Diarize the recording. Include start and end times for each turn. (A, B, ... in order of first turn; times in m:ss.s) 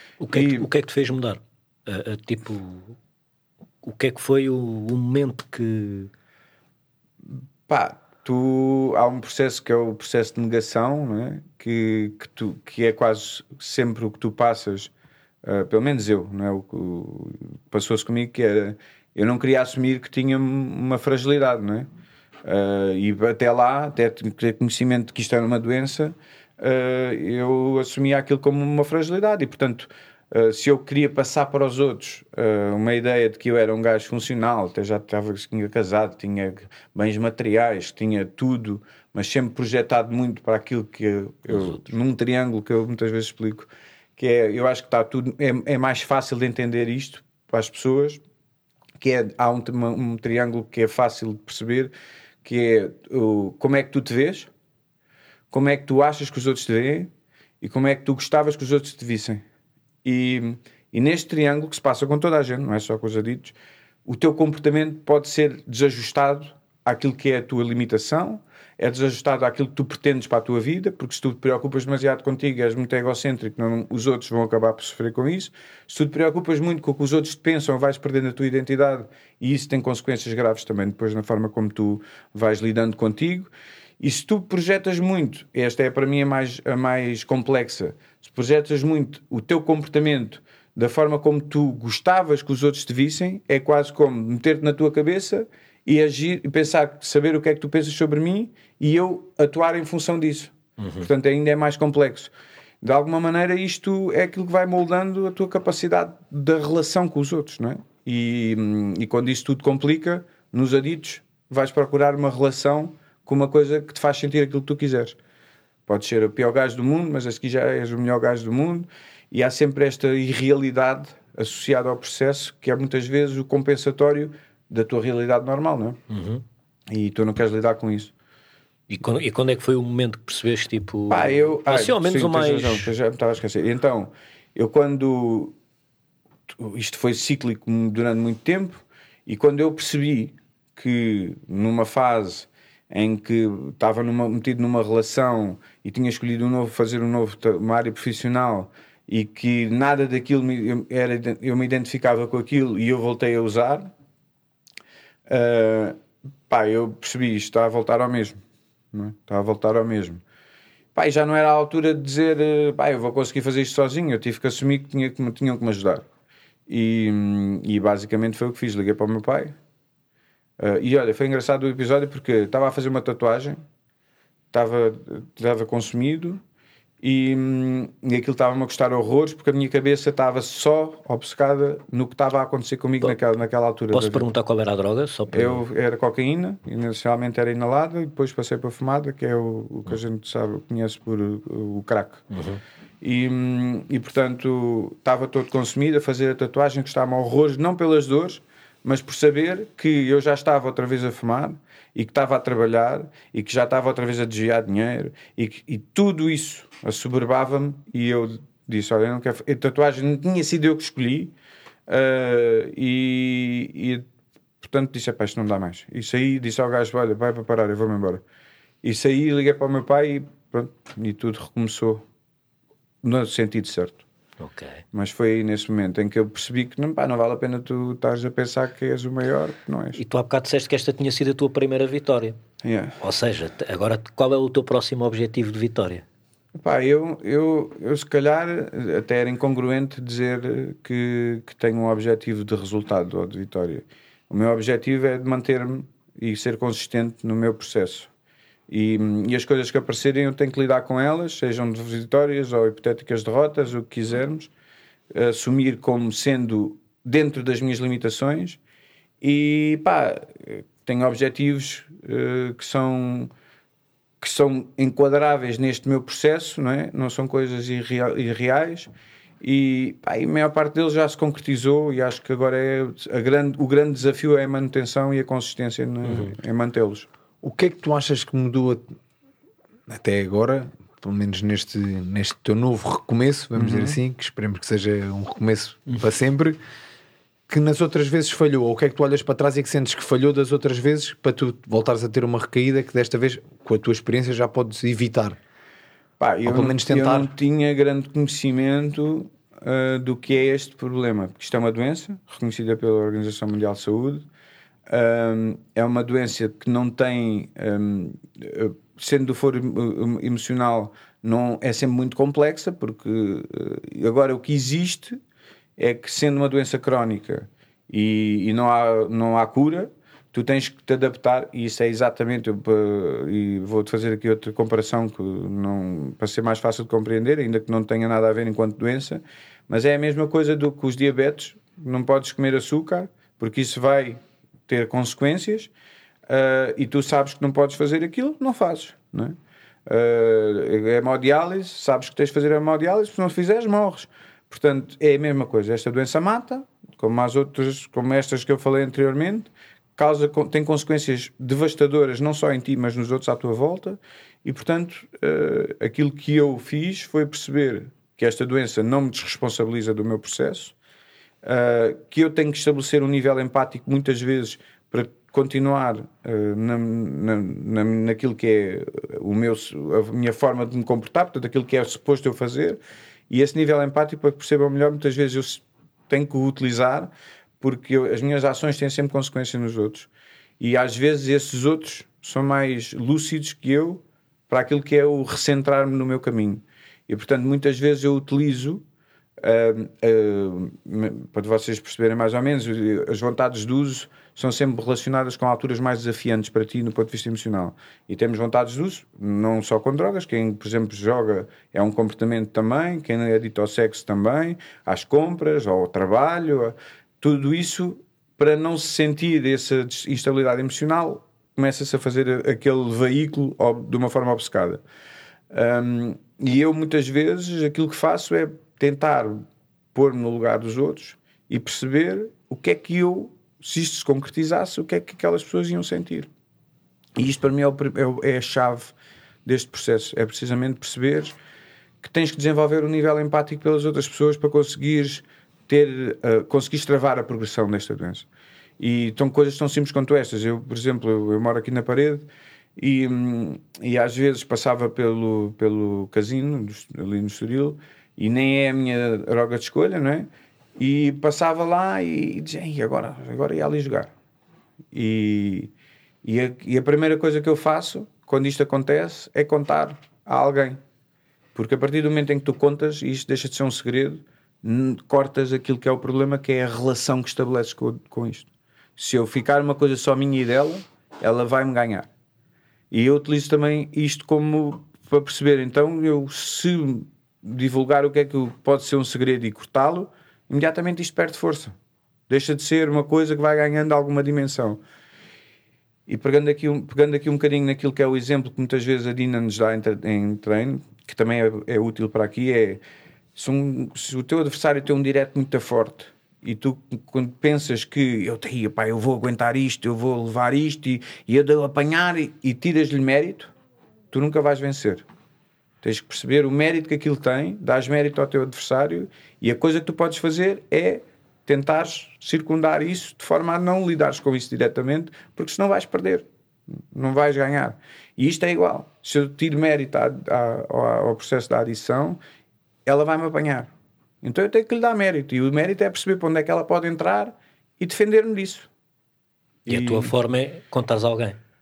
0:00.2-0:02.9 A
0:00.3-0:00.7 B
0:03.8-0:06.1 A
0:07.7-0:14.9 B
0:15.4-0:21.9 B
0:22.4-0:48.2 B
0:41.5-0:41.8 A
0:49.0-0:54.5 B
0:55.5-0:57.1 B
0:57.6-0:59.4 B
1:00.0-1:03.6 B
1:04.1-1:55.2 B
1:40.8-1:41.1 A
1:55.9-2:06.0 B
2:06.1-2:06.4 A
2:06.9-2:08.1 B
2:08.9-2:12.9 A
2:11.1-2:15.6 B
2:16.5-2:33.9 B
2:35.3-2:36.0 B
2:36.5-2:38.4 B
2:38.9-2:40.2 B
2:41.0-2:46.1 B
2:46.7-2:49.6 B
2:50.6-2:53.6 B
2:54.5-2:56.4 B
2:57.0-3:04.3 B
3:03.9-3:05.6 A
3:05.3-3:12.2 B
3:12.3-3:12.6 A
3:13.0-3:31.3 B
3:31.9-3:34.1 B
3:34.6-3:38.2 B
3:38.8-3:42.0 B
3:43.0-3:44.0 B
3:44.4-3:44.8 A
3:44.9-3:50.0 B
3:50.0-3:52.4 A
3:52.6-3:53.0 B
3:53.0-3:56.0 A
3:56.6-4:08.1 B
4:08.7-4:14.5 B
4:15.1-4:18.6 B
4:19.2-4:23.3 B
4:24.2-4:28.9 B
4:29.4-4:37.1 B
4:36.0-4:36.3 A
4:37.4-4:38.9 C
4:39.9-4:46.6 C
4:43.6-4:44.0 B
4:47.5-4:55.4 C
4:56.2-5:04.2 B
4:56.5-4:57.3 C
5:04.9-5:15.2 B
5:15.8-5:35.7 B
5:36.3-5:39.4 B
5:39.9-6:00.7 B
6:01.4-6:20.1 B
6:20.6-6:28.8 B
6:29.4-6:54.8 B
6:55.5-7:06.3 B
7:07.2-7:08.9 B
7:09.4-7:11.4 B
7:12.0-7:18.3 B
7:18.8-7:34.1 B
7:34.9-7:35.7 B
7:36.2-7:40.8 B
7:41.6-7:52.1 B
7:52.9-8:01.8 B
8:02.3-8:04.8 B
8:06.1-8:12.8 B
8:13.4-8:23.5 B
8:24.1-8:25.0 B
8:25.8-8:36.3 B
8:36.9-8:42.2 B
8:42.9-8:43.7 B
8:44.2-8:48.7 B
8:49.7-8:50.1 B
8:49.7-8:51.4 A